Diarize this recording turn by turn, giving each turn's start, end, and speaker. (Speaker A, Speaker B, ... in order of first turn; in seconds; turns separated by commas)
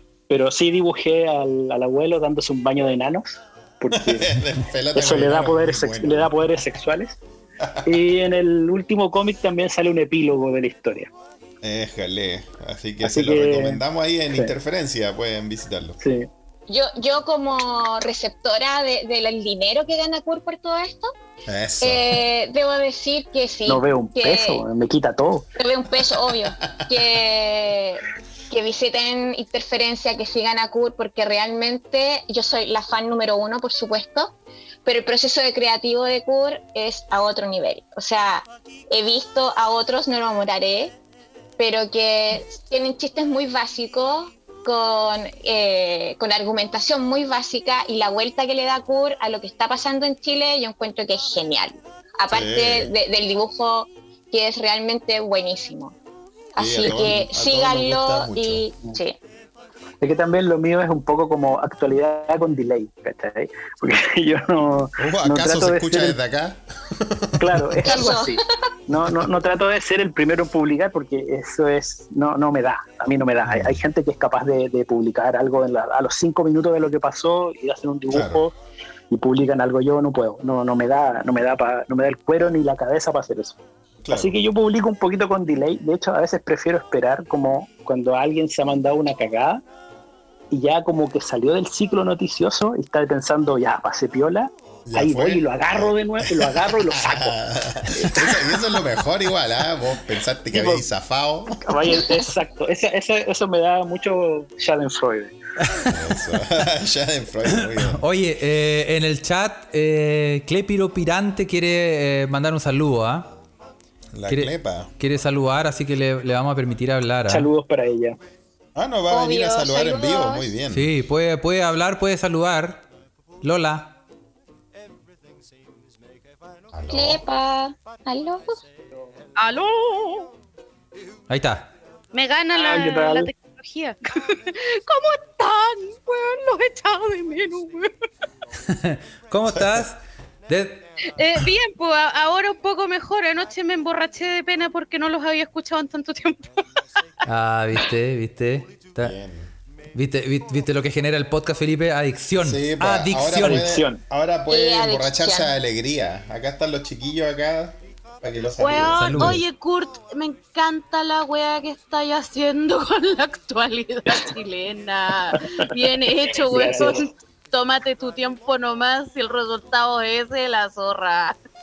Speaker A: 0.3-4.4, Speaker B: 3.9-6.5, Speaker A: 4.9-7.2, Speaker B: 7.6-8.0, Speaker A: 7.8-11.1, Speaker B: 11.6-16.0, Speaker A: 13.0-13.8, Speaker A: 16.0-16.3, Speaker C: 16.7-21.1, Speaker B: 21.5-22.2, Speaker C: 21.8-24.6, Speaker A: 23.7-25.5, Speaker C: 25.6-41.0, Speaker B: 26.3-26.9, Speaker C: 41.6-56.0, Speaker B: 52.3-52.9, Speaker C: 56.5-59.2, Speaker B: 56.6-58.6, Speaker A: 60.0-66.2, Speaker B: 65.0-67.9, Speaker A: 67.4-78.5, Speaker C: 67.8-68.5, Speaker B: 73.5-73.8, Speaker B: 78.1-78.5, Speaker A: 79.1-83.6, Speaker B: 84.0-84.4, Speaker A: 84.1-89.6, Speaker A: 90.5-98.6, Speaker B: 94.9-102.0, Speaker A: 100.5-100.9, Speaker A: 101.6-105.3, Speaker D: 105.6-106.0, Speaker B: 105.9-108.0, Speaker D: 107.5-113.3, Speaker B: 114.1-114.9, Speaker D: 114.3-117.5, Speaker A: 117.3-118.2, Speaker B: 118.8-120.9, Speaker C: 119.1-120.5, Speaker D: 120.7-122.9, Speaker D: 123.4-124.0, Speaker B: 126.7-127.2, Speaker C: 126.9-128.6, Speaker E: 129.4-130.3, Speaker D: 131.3-131.7, Speaker E: 132.1-137.9, Speaker A: 132.5-133.3, Speaker D: 138.7-140.9, Speaker B: 139.5-139.8, Speaker E: 141.1-146.6, Speaker D: 147.2-149.2, Speaker B: 149.0-149.5, Speaker D: 149.9-153.7, Speaker B: 152.4-159.4, Speaker A: 153.4-154.0, Speaker C: 154.5-155.5, Speaker E: 158.6-171.4, Speaker D: 158.9-159.4, Speaker A: 166.5-167.1